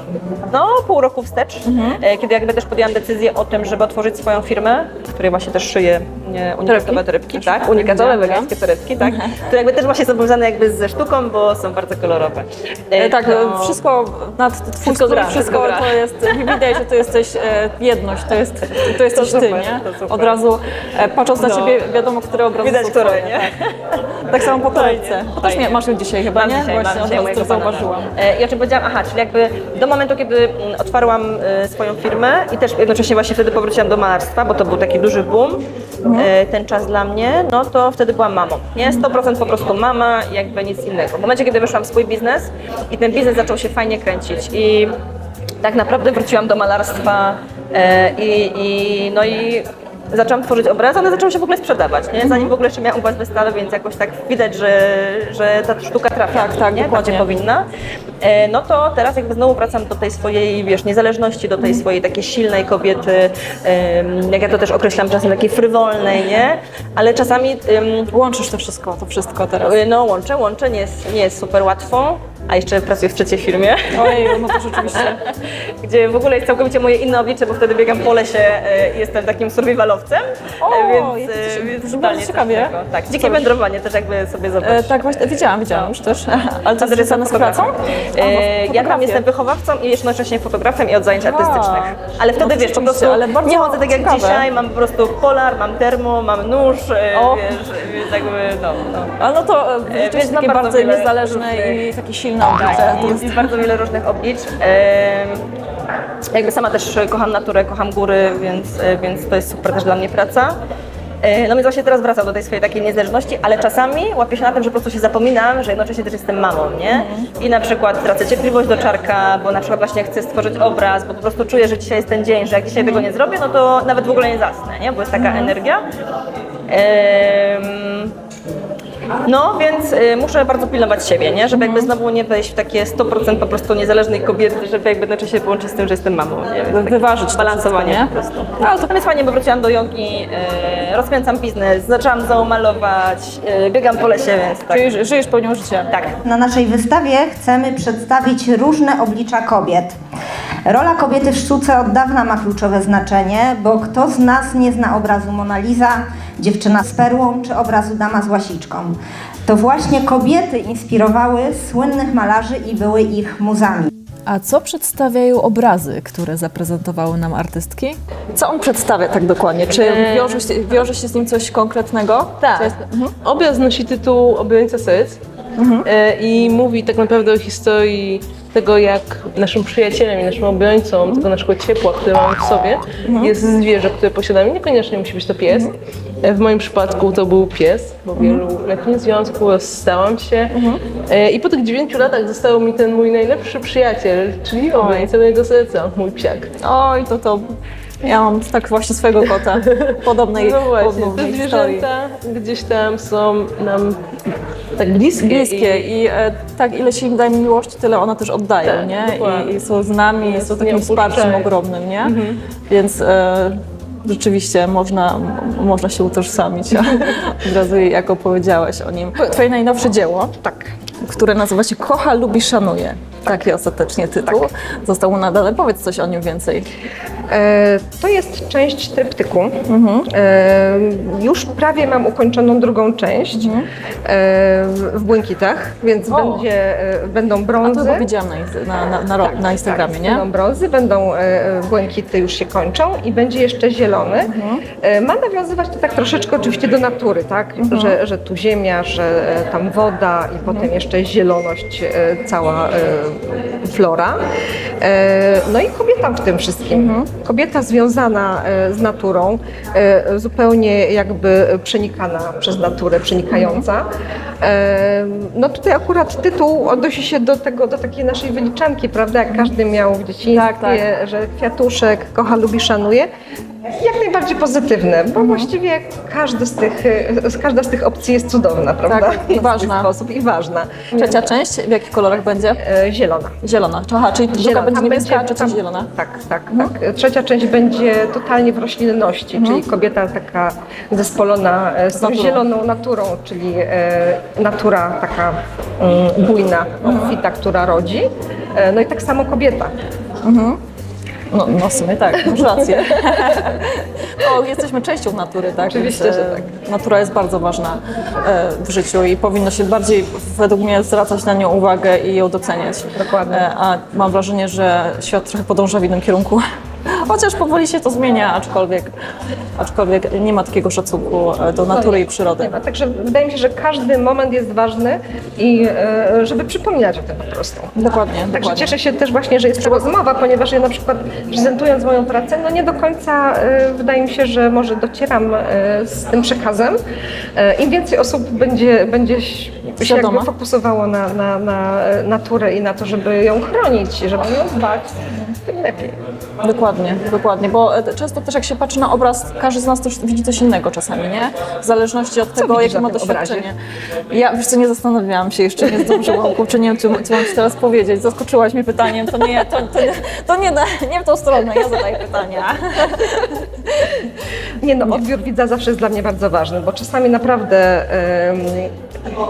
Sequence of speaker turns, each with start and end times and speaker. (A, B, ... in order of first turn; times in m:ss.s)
0:00.5-0:13.8 A
0:01.6-0:02.0 B
0:06.6-0:08.5 B
0:09.0-0:09.3 B
0:13.0-0:23.5 B
0:14.8-0:16.6 A
0:18.9-0:20.4 A
0:21.4-0:21.8 A
0:22.6-0:44.9 A
0:24.2-0:28.1 B
0:36.0-0:36.3 B
0:45.6-0:57.7 A
0:52.2-0:52.5 B
0:56.3-0:57.3 B
0:58.2-1:08.1 A
1:08.1-1:09.8 B
1:09.6-1:25.0 A
1:13.9-1:15.2 B
1:20.6-1:23.5 B
1:24.6-1:29.2 B
1:26.8-1:39.2 A
1:31.2-1:34.5 B
1:37.1-1:37.5 B
1:39.2-1:43.6 B
1:39.9-1:41.8 A
1:42.6-1:45.4 A
1:46.3-1:50.6 A
1:51.2-2:05.8 A
1:56.9-1:57.3 B
2:02.8-2:03.1 B
2:05.2-2:05.6 B
2:06.7-2:08.1 A
2:09.2-2:24.9 A
2:11.5-2:11.9 B
2:16.7-2:18.9 B
2:24.7-2:25.9 B
2:25.9-2:26.2 A
2:26.2-2:30.0 C
2:30.6-2:43.9 C
2:44.3-2:53.1 B
2:49.8-2:50.5 D
2:52.4-2:55.2 D
2:55.6-2:55.9 B
2:55.8-3:05.7 D
3:03.0-3:03.4 B
3:06.2-3:16.5 D
3:08.2-3:08.4 B
3:10.5-3:10.8 B
3:14.8-3:15.1 B
3:16.6-3:17.5 B
3:18.0-3:21.9 B
3:19.5-3:25.9 D
3:25.2-3:32.2 B
3:28.6-3:29.6 D
3:30.2-3:31.5 D
3:32.7-3:40.4 B
3:40.4-3:40.7 E
3:41.0-3:46.7 B
3:47.3-3:53.6 E
3:49.7-3:50.1 B
3:53.3-3:53.7 B
3:54.1-3:58.1 E
3:56.1-3:56.5 B
3:57.6-4:00.2 B
3:59.2-4:14.2 E
4:04.2-4:04.6 B
4:07.6-4:08.0 B
4:10.5-4:10.7 B
4:14.8-4:23.8 E
4:16.7-4:17.1 B
4:23.3-4:23.7 B
4:24.4-4:33.1 E
4:30.3-4:30.8 B
4:33.8-4:41.3 E
4:35.2-4:35.5 B
4:38.9-4:39.9 B
4:40.9-4:42.6 B
4:42.6-4:43.4 E
4:43.4-4:45.9 B
4:44.3-4:59.7 E
4:49.3-4:49.6 B
4:51.9-4:52.4 B
4:56.8-4:57.2 B
5:00.2-5:00.6 B
5:01.3-5:18.9 B
5:05.7-5:06.5 E
5:13.0-5:13.4 E
5:19.6-5:22.6 B
5:21.7-5:27.7 E
5:27.8-5:28.7 B
5:28.3-5:36.8 E
5:29.6-5:29.9 B
5:37.4-5:46.0 E
5:39.8-5:40.3 B
5:46.4-5:53.6 B
5:52.3-5:53.5 E
5:54.1-6:04.1 B
6:04.6-6:08.7 E